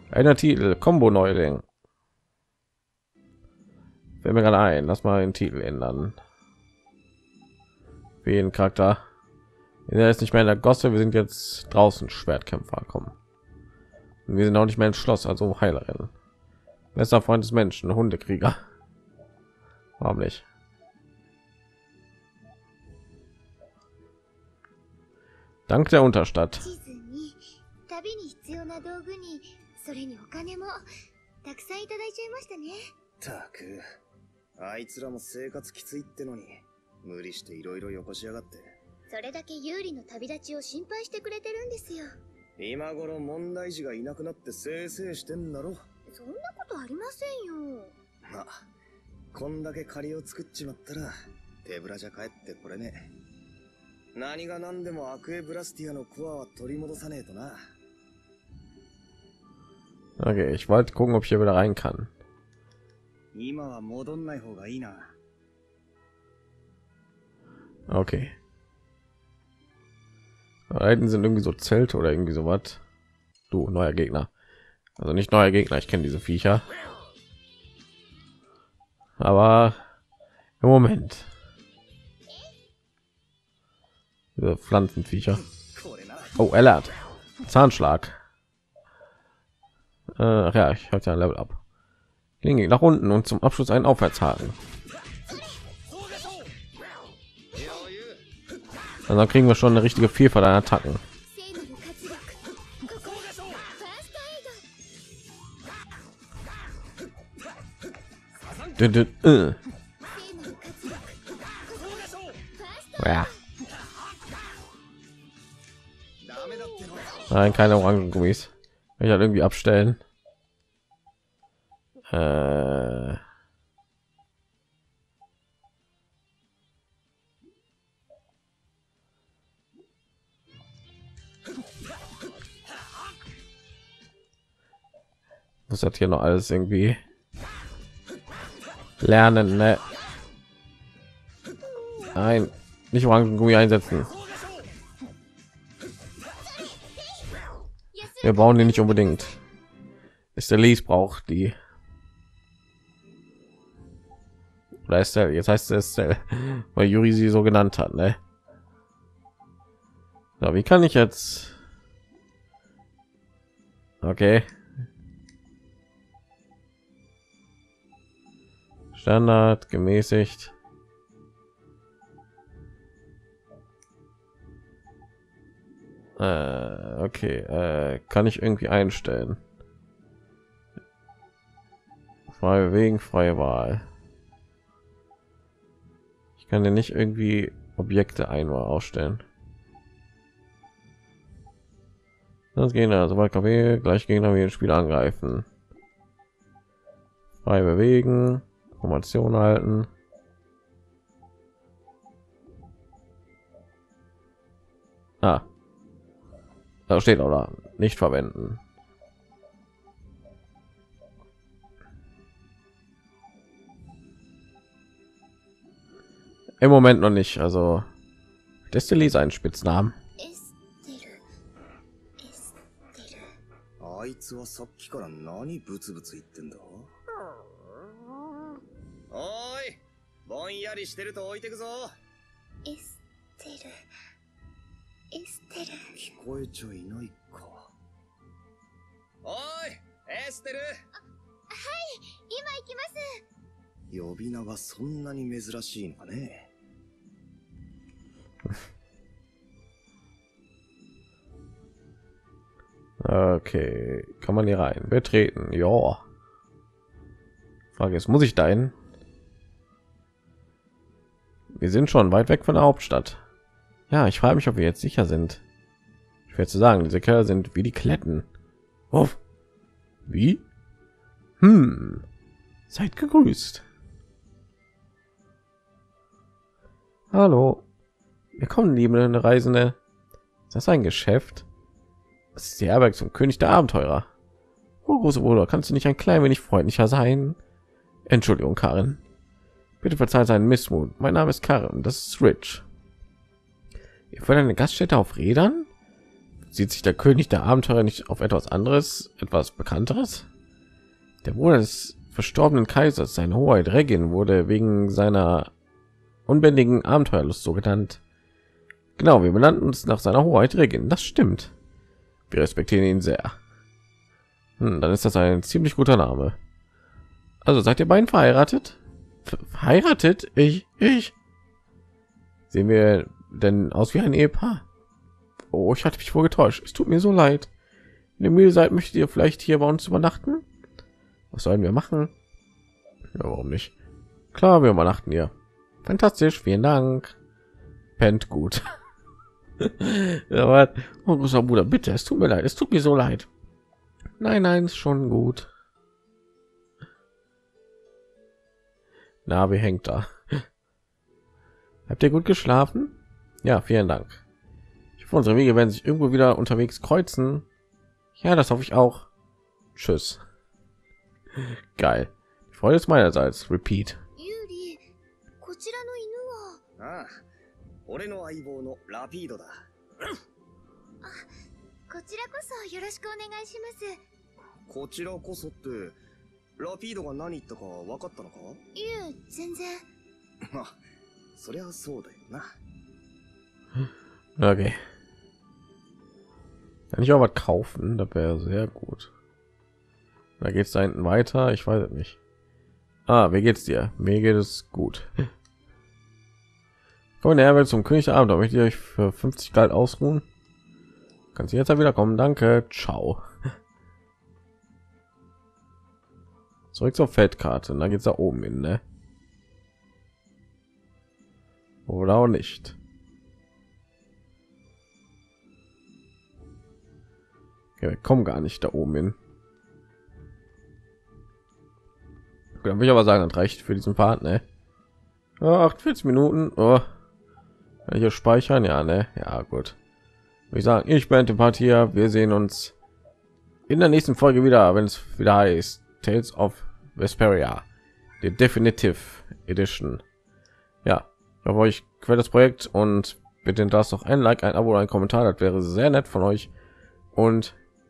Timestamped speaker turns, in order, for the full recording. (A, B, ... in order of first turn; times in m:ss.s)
0:00.1-0:01.6 A
0:04.2-0:06.2 A
0:08.2-0:09.0 A
0:09.9-0:13.1 A
0:14.3-0:16.1 A
0:16.9-0:18.6 A
0:20.0-0:20.4 A
0:25.7-0:26.6 A
0:26.6-0:30.8 B
0:31.4-0:32.9 B
0:33.2-0:33.8 C
0:34.6-0:38.7 C
0:39.1-0:42.2 B
0:42.6-0:45.8 C
0:46.1-0:48.0 B
0:48.2-0:48.6 C
0:49.3-0:51.1 C
0:51.6-0:53.1 C
0:54.1-0:57.6 C
1:00.2-1:02.1 A
1:03.3-1:05.1 C
1:07.9-1:08.3 A
1:10.7-1:12.8 A
1:13.5-1:14.3 A
1:15.0-1:16.7 A
1:19.2-1:19.8 A
1:20.6-1:21.3 A
1:22.3-1:22.6 B
1:24.4-1:25.4 A
1:25.8-1:26.3 C
1:26.4-1:28.1 A
1:30.2-1:31.6 A
1:32.4-1:34.6 A
1:37.5-1:38.2 C
1:39.1-1:41.0 A
1:41.3-1:44.6 B
1:48.8-1:49.6 A
1:50.0-1:53.4 B
1:53.0-1:53.3 A
1:56.2-1:57.3 C
1:56.4-1:56.7 B
1:57.3-2:00.0 A
2:02.1-2:03.2 A
2:15.7-2:17.0 A
2:19.0-2:19.8 A
2:22.1-2:24.1 A
2:27.9-2:29.4 B
2:28.2-2:29.4 A
2:30.3-2:31.6 A
2:34.8-2:38.2 A
2:40.4-2:41.6 A
2:44.0-2:44.5 A
2:48.9-2:50.5 A
2:56.2-2:59.4 A
3:02.3-3:03.8 A
3:06.4-3:09.2 A
3:12.5-3:15.4 A
3:17.4-3:19.9 A
3:25.2-3:25.4 A
3:26.9-3:28.6 A
3:36.6-3:37.9 A
3:38.7-3:40.0 A
3:40.2-3:41.2 B
3:42.2-3:43.4 B
3:43.8-3:46.9 C
3:49.1-3:51.9 C
3:52.6-3:53.9 B
3:55.1-3:55.9 B
3:56.0-3:57.7 C
3:59.2-4:00.8 C
4:00.9-4:03.2 B
4:03.9-4:06.5 C
4:13.0-4:16.0 A
4:17.8-4:18.7 A
4:21.6-4:23.2 A
4:23.9-4:25.4 A
4:26.3-4:28.3 A
4:28.9-4:29.2 A
4:30.0-4:30.4 A
4:31.4-4:32.0 A
4:32.7-4:33.6 A
4:37.1-4:37.6 A
4:38.4-4:39.8 A
4:40.5-4:41.4 A
4:42.3-4:44.1 A
4:44.8-4:47.4 A
4:48.1-4:49.0 A
4:49.8-4:52.6 A
4:54.1-4:55.7 A
4:56.5-5:00.3 A
5:01.2-5:05.5 A
5:06.3-5:08.0 A
5:09.0-5:11.5 A
5:12.3-5:13.4 A
5:14.6-5:16.4 A
5:17.4-5:21.1 A
5:22.5-5:24.6 A
5:25.5-5:27.5 A
5:28.2-5:30.4 A
5:31.3-5:32.1 A
5:33.1-5:33.7 A
5:34.3-5:35.3 A
5:35.8-5:37.1 A
5:38.0-5:38.6 A
5:39.6-5:43.3 A
5:44.2-5:45.5 A
5:49.2-5:50.4 A
5:51.9-5:54.2 A
5:55.0-5:57.4 A
5:58.2-5:59.1 A
5:59.7-6:00.2 A
6:01.3-6:04.0 A
6:04.2-6:04.9 B
6:05.4-6:06.6 B
6:06.8-6:07.2 C
6:07.9-6:09.7 C
6:11.0-6:11.3 B
6:11.9-6:14.0 B
6:14.7-6:16.0 C
6:16.6-6:18.6 C
6:18.7-6:19.8 B
6:20.4-6:20.8 C
6:21.4-6:22.5 C
6:24.4-6:24.8 A
6:26.9-6:29.1 A
6:30.4-6:32.2 A
6:33.1-6:35.1 A
6:37.2-6:40.2 A
6:41.3-6:43.3 A
6:46.7-6:48.8 A
6:51.8-6:52.8 A
6:57.8-6:59.2 A
7:02.6-7:04.4 A
7:05.4-7:06.8 A
7:07.8-7:09.8 A
7:10.5-7:12.7 A
7:13.7-7:17.6 A
7:18.2-7:20.0 A
7:20.8-7:26.5 A
7:27.1-7:27.6 A